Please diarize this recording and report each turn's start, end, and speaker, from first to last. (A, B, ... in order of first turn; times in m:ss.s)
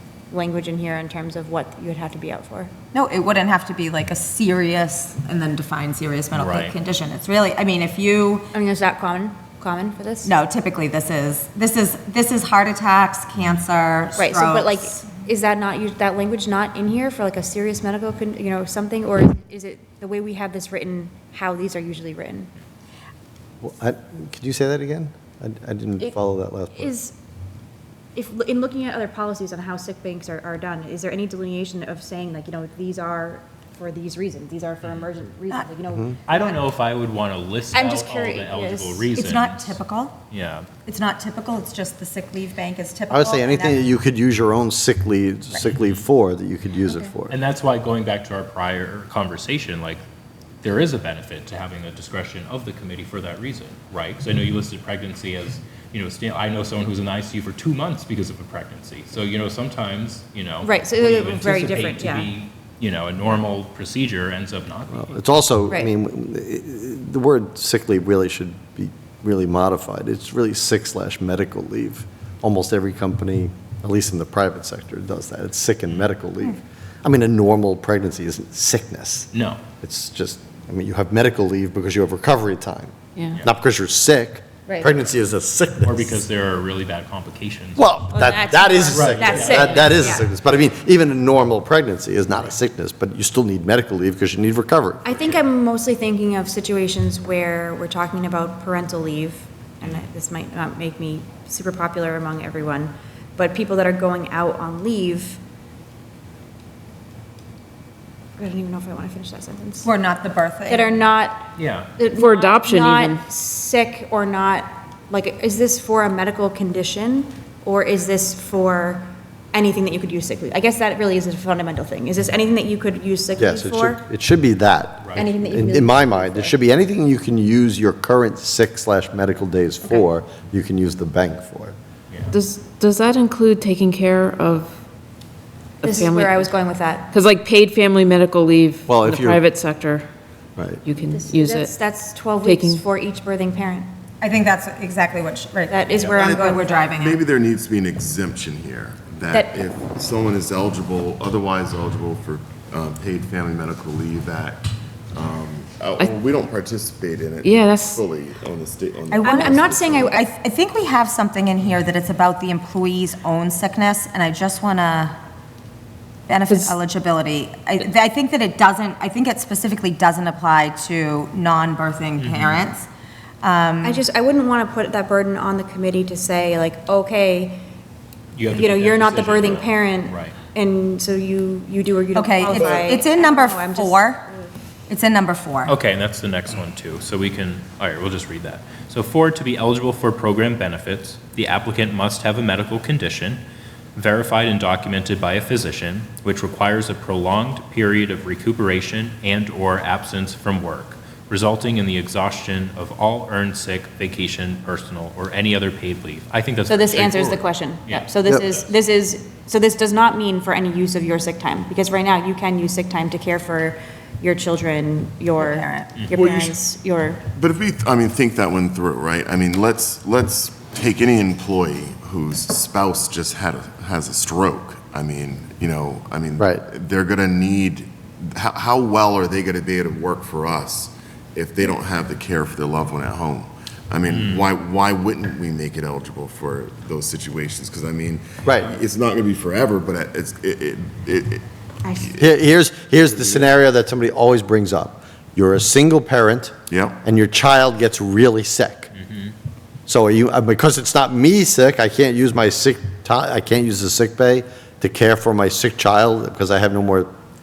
0:00.3-0:02.7 A
0:02.9-0:08.5 B
0:06.3-0:06.8 C
0:08.5-0:10.3 A
0:10.2-0:14.9 B
0:14.2-0:22.5 A
0:23.6-0:26.9 D
0:26.7-0:27.1 A
0:28.2-0:36.6 A
0:36.3-0:40.7 C
0:37.7-0:39.1 A
0:39.2-0:40.1 B
0:40.8-0:43.8 B
0:43.1-0:47.4 D
0:45.7-0:46.0 C
0:47.3-0:50.0 C
0:50.6-1:05.1 C
1:00.6-1:02.3 A
1:04.9-1:26.2 D
1:19.3-1:19.6 C
1:25.8-1:28.0 C
1:27.8-1:35.0 D
1:28.1-1:30.2 A
1:28.9-1:30.0 C
1:35.0-1:45.4 A
1:48.4-1:49.9 A
1:49.8-1:50.9 B
1:50.7-2:04.0 A
1:51.6-1:51.9 C
1:52.1-1:53.2 E
2:03.4-2:11.7 D
2:05.2-2:06.6 A
2:12.3-2:14.7 E
2:15.8-2:16.5 E
2:15.8-2:17.1 A
2:17.1-2:20.1 E
2:18.9-2:19.4 D
2:20.6-2:20.8 D
2:20.8-2:21.7 E
2:21.0-2:23.9 A
2:22.4-2:22.8 E
2:24.2-2:27.2 B
2:25.7-2:26.8 A
2:25.9-2:40.2 F
2:29.3-2:29.6 A
2:37.4-2:38.0 E
2:39.1-2:39.6 B
2:39.2-2:40.3 A
2:40.1-2:45.2 B
2:46.3-2:52.9 B
2:46.5-2:46.8 E
2:52.2-2:52.7 C
2:53.4-2:54.0 B
2:53.8-2:57.6 A
2:58.3-3:00.4 C
2:58.5-3:04.5 A
3:02.2-3:04.2 B
3:04.9-3:05.7 B
3:05.6-3:13.4 C
3:13.9-3:28.7 C
3:26.7-3:37.2 A
3:35.4-3:36.4 B
3:36.1-3:36.5 F
3:37.3-4:01.4 F
3:46.4-3:46.6 D
3:54.0-3:54.5 C
3:58.4-3:58.8 D
4:01.9-4:02.3 F
4:02.2-4:08.9 D
4:03.1-4:03.5 F
4:06.7-4:07.0 F
4:09.0-4:09.3 C
4:09.9-4:17.1 D